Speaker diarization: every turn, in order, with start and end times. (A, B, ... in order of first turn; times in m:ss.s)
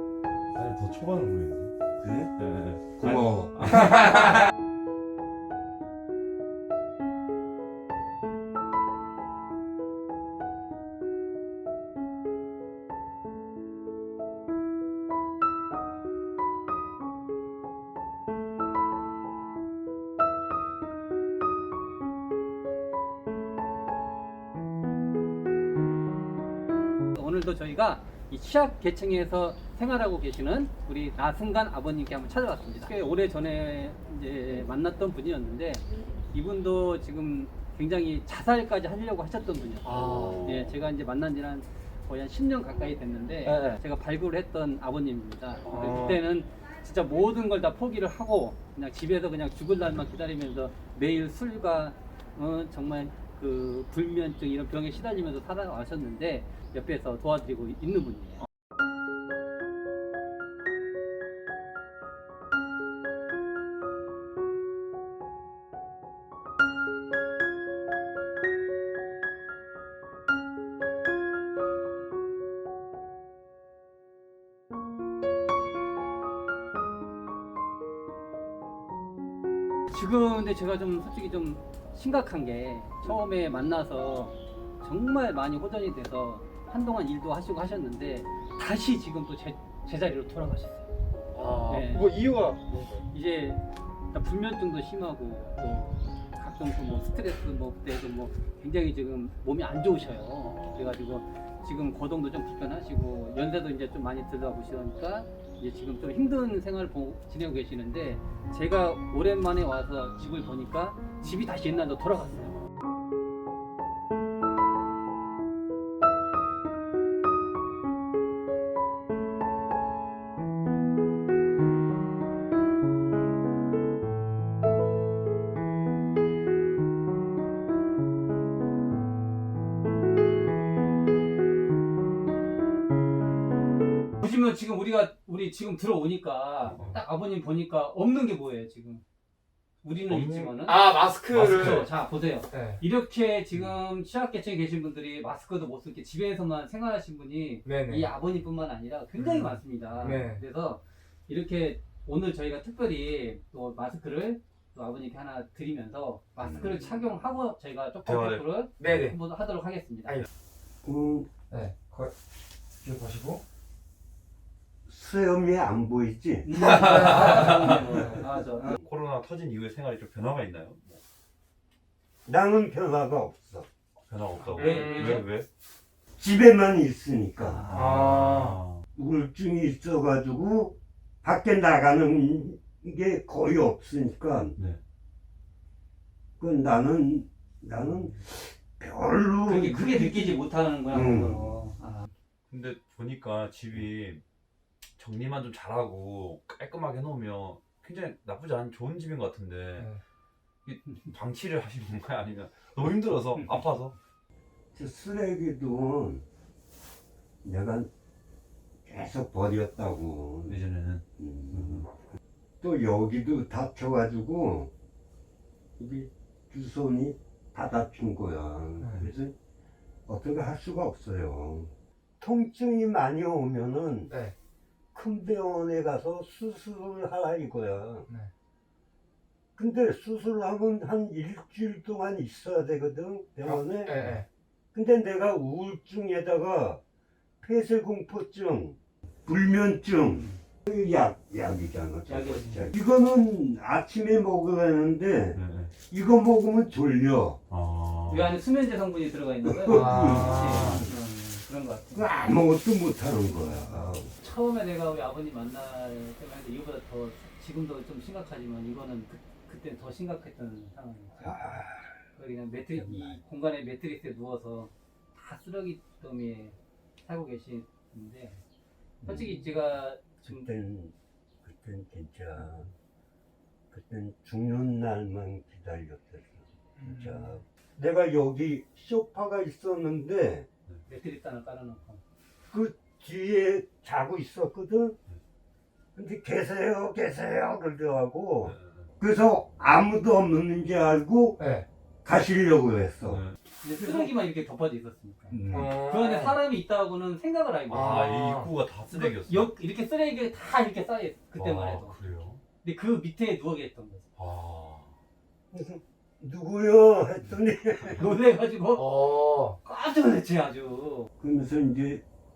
0:00.5-0:01.7 A
0:02.0-0:02.3 B
0:02.4-0:04.4 A
0:03.0-0:03.9 B
0:04.1-0:04.4 C
0:27.1-0:58.4 D
0:39.9-0:40.7 A
0:39.9-0:40.3 C
0:43.5-0:43.8 C
0:45.6-0:46.0 A
0:45.8-0:46.2 C
1:19.9-1:30.9 D
1:31.3-1:33.0 C
1:31.6-1:32.1 D
1:33.1-1:52.6 D
2:14.2-2:19.0 D
2:16.6-2:17.0 A
2:19.8-2:40.2 D
2:20.1-2:20.6 A
2:20.6-2:21.9 C
2:21.3-2:21.8 A
2:22.5-2:22.8 C
2:27.6-2:28.1 C
2:29.2-2:29.6 A
2:30.0-2:30.4 C
2:36.4-2:36.9 B
2:38.0-2:38.8 A
2:38.8-2:39.2 C
2:40.8-2:41.3 B
2:41.5-2:42.1 C
2:42.8-2:43.4 C
2:44.9-2:46.7 B
2:46.4-2:48.8 D
2:46.6-2:48.0 A
2:46.8-2:48.3 C
2:48.8-2:51.0 A
2:52.2-2:53.7 B
2:54.1-2:55.5 A
2:54.5-2:55.3 D
2:54.6-2:55.2 C
2:56.2-2:57.8 B
2:57.4-2:58.0 D
2:57.6-2:58.8 A
2:57.7-2:58.6 C
2:58.9-3:04.6 B
3:06.4-3:11.6 B
3:09.4-3:12.1 D
3:12.5-3:14.2 A
3:15.0-3:19.9 A
3:20.6-3:23.9 A
3:24.7-3:26.2 B
3:27.4-3:27.9 B
3:28.8-3:30.6 B
3:30.5-3:31.8 A
3:31.2-3:31.9 B
3:32.6-3:34.7 B
3:35.8-3:39.3 B
3:38.8-3:39.1 C
3:40.1-3:44.1 B
3:44.9-3:48.1 B
3:49.6-3:54.2 B
3:53.4-3:54.2 C
3:54.7-3:56.8 B
3:57.4-4:07.4 B
4:00.0-4:00.4 D
4:02.1-4:02.7 D
4:05.3-4:05.7 A
4:07.5-4:08.4 A
4:08.1-4:12.1 D
4:09.4-4:10.9 B
4:09.7-4:10.8 C
4:10.0-4:10.8 A
4:11.9-4:14.1 B
4:14.1-4:28.4 D
4:21.2-4:22.0 B
4:22.7-4:23.2 B
4:29.0-4:29.5 B
4:29.0-4:30.5 D
4:30.2-4:32.7 B
4:33.7-4:40.5 B
4:36.8-4:37.3 C
4:40.8-4:42.0 D
4:42.5-4:45.0 B
4:45.9-4:51.4 B
4:48.4-4:48.9 A
4:51.4-4:51.6 C
4:52.0-4:53.2 B
4:53.0-4:53.4 A
4:53.6-4:58.1 D
4:53.8-4:54.1 B
4:55.3-4:55.7 B
4:55.5-4:56.4 C
4:57.7-4:59.5 A
4:57.7-4:58.5 C
4:58.9-5:04.0 D
5:01.4-5:02.4 A
5:04.2-5:04.9 A
5:05.5-5:08.0 B
5:07.8-5:11.1 D
5:08.8-5:09.6 C
5:11.2-5:12.0 B